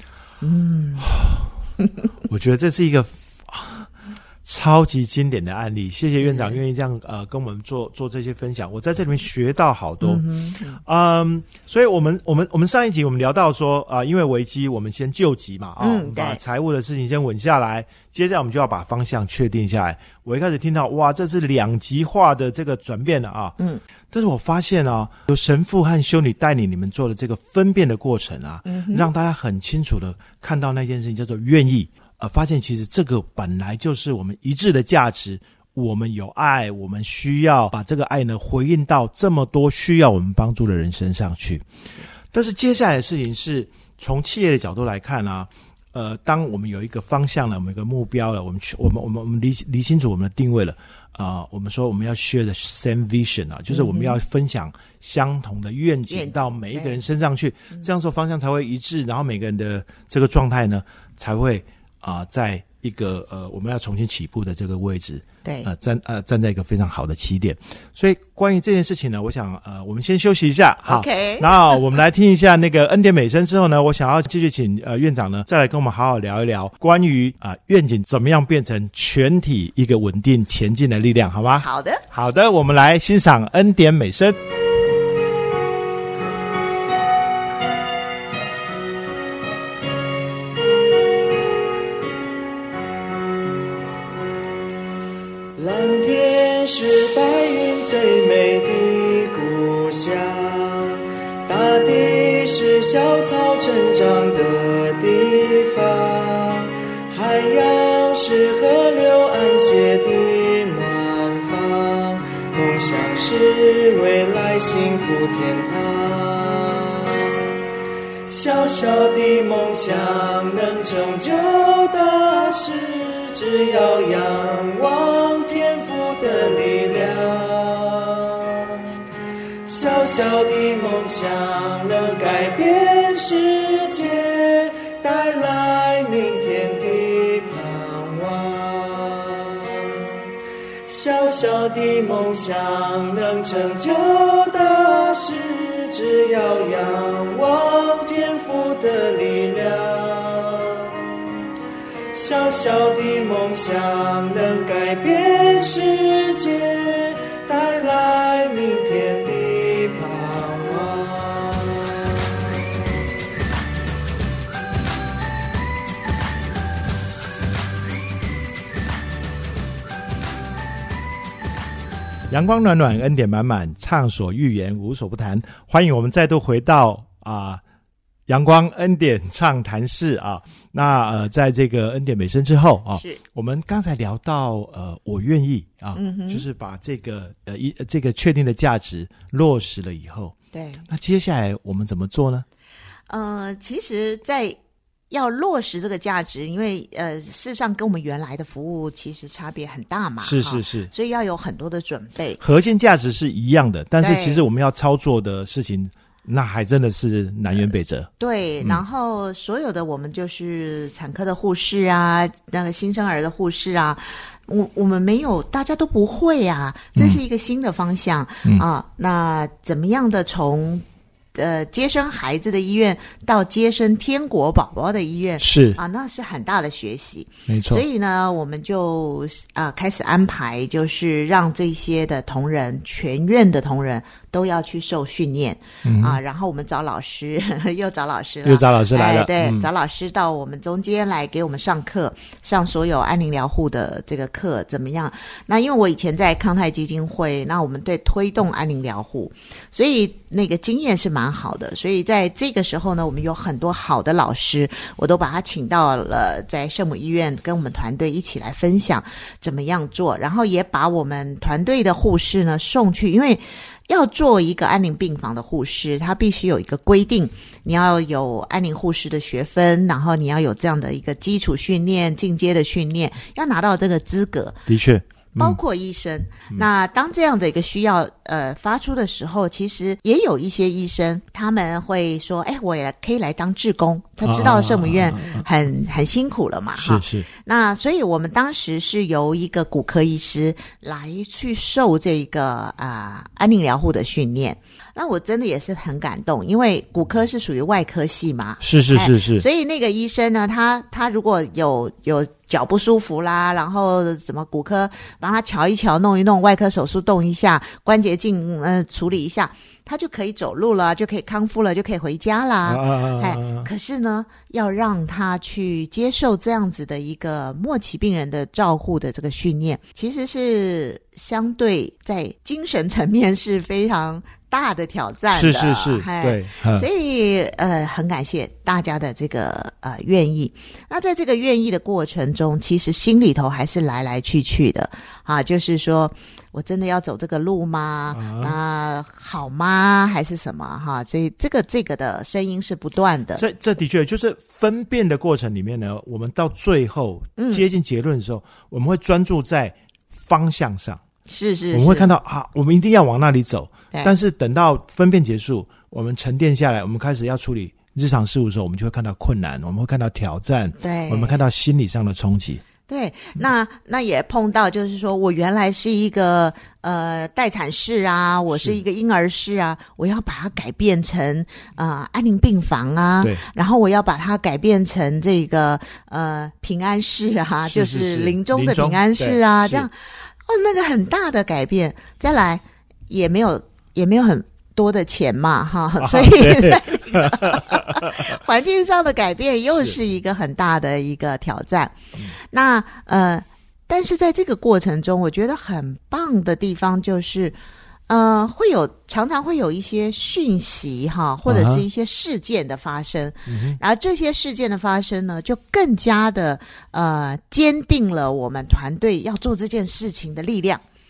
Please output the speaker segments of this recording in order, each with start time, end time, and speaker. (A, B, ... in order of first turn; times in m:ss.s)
0:00.4-0:01.1 A
0:01.1-0:01.4 B
0:02.3-0:03.9 B
0:04.4-0:10.2 B
0:06.2-0:06.6 A
0:10.0-0:10.8 A
0:10.8-0:23.6 B
0:15.8-0:16.4 A
0:24.1-0:41.6 B
0:28.6-0:29.1 A
0:42.3-1:24.4 B
0:53.7-0:54.2 A
0:56.1-0:57.0 A
1:10.8-1:11.8 A
1:21.6-1:22.0 A
1:35.6-1:57.5 C
1:58.2-2:08.9 C
2:09.7-2:20.2 C
2:20.9-2:31.0 C
2:32.1-2:42.6 C
2:52.3-2:57.6 B
2:58.3-3:10.4 B
3:03.0-3:03.2 A
3:06.0-3:06.5 A
3:10.5-3:10.9 A
3:10.9-3:12.4 B
3:13.1-3:14.6 A
3:15.1-3:22.4 A
3:20.2-3:20.9 B
3:22.4-3:28.1 B
3:24.0-3:24.4 A
3:28.2-4:34.6 A
3:37.0-3:37.2 B
3:45.4-3:45.8 B
3:47.5-3:47.8 B
3:55.8-3:56.2 B
3:58.4-3:59.7 B
4:34.7-4:35.6 B
4:35.4-5:43.4 A
4:44.2-4:45.5 B
4:46.8-4:47.3 B
4:58.6-4:59.4 B
5:12.7-5:13.7 B
5:25.3-5:26.9 B
5:38.1-5:38.6 B
5:43.4-5:51.0 B
5:47.4-5:47.6 A
5:51.3-5:52.1 A
5:51.7-6:02.6 B
6:00.8-6:01.4 A
6:02.9-6:37.6 A
6:08.5-6:08.8 B
6:17.7-6:19.9 B
6:26.0-6:28.4 B
6:38.1-6:50.8 A
6:41.5-6:41.8 B
6:43.5-6:43.8 B